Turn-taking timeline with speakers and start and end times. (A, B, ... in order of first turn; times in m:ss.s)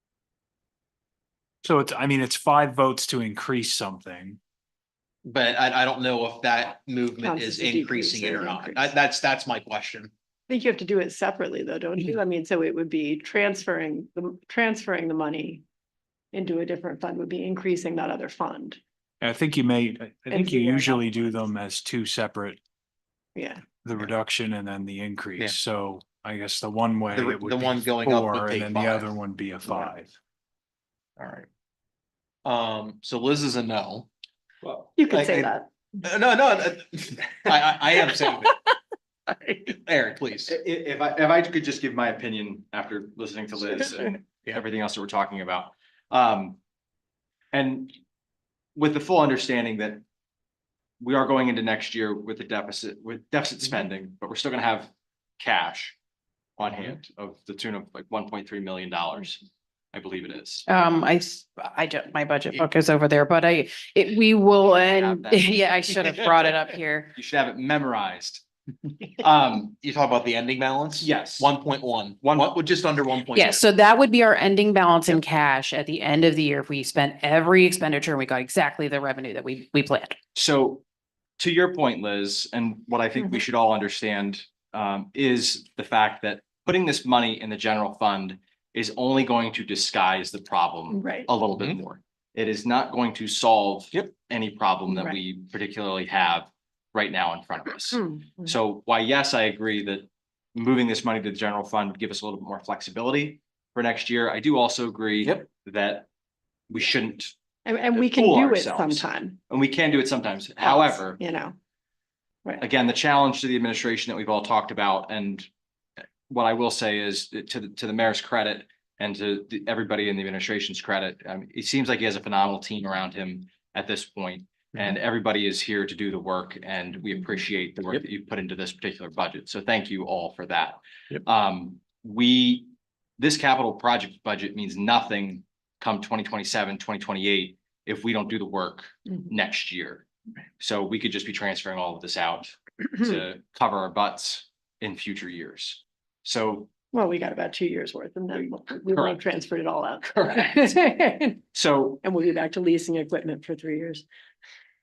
0:01.6-0:04.4 A
0:05.2-0:10.1 B
0:07.2-0:08.9 C
0:10.5-0:15.6 C
0:16.3-0:18.8 C
0:19.2-0:22.6 A
0:20.3-0:21.5 C
0:23.3-0:23.6 C
0:23.8-0:30.2 A
0:27.1-0:29.1 B
0:29.7-0:29.9 B
0:31.2-0:31.5 B
0:32.4-0:34.1 B
0:34.6-0:34.9 D
0:35.0-0:35.7 C
0:35.1-0:38.6 B
0:39.6-0:40.6 B
0:40.5-0:46.6 D
0:47.5-0:48.0 D
0:48.8-0:50.0 D
0:51.0-0:56.0 D
0:56.6-1:00.7 D
1:00.7-1:07.1 E
1:04.8-1:06.5 D
1:07.2-1:08.4 D
1:09.2-1:09.7 D
1:09.7-1:13.7 B
1:11.0-1:11.5 D
1:12.2-1:12.6 D
1:13.3-1:20.2 E
1:20.3-1:20.8 D
1:21.4-1:46.1 D
1:30.9-1:31.3 C
1:34.9-1:35.2 C
1:38.1-1:38.5 C
1:46.7-1:47.3 D
1:47.6-1:49.4 C
1:47.9-1:51.2 D
1:50.6-1:51.6 C
1:52.6-1:55.5 D
1:56.3-2:20.0 D
2:20.6-2:26.7 D
2:26.9-2:31.4 C
2:28.9-2:29.2 D
2:30.0-2:30.7 D
2:31.5-2:32.0 D
2:32.0-2:34.0 C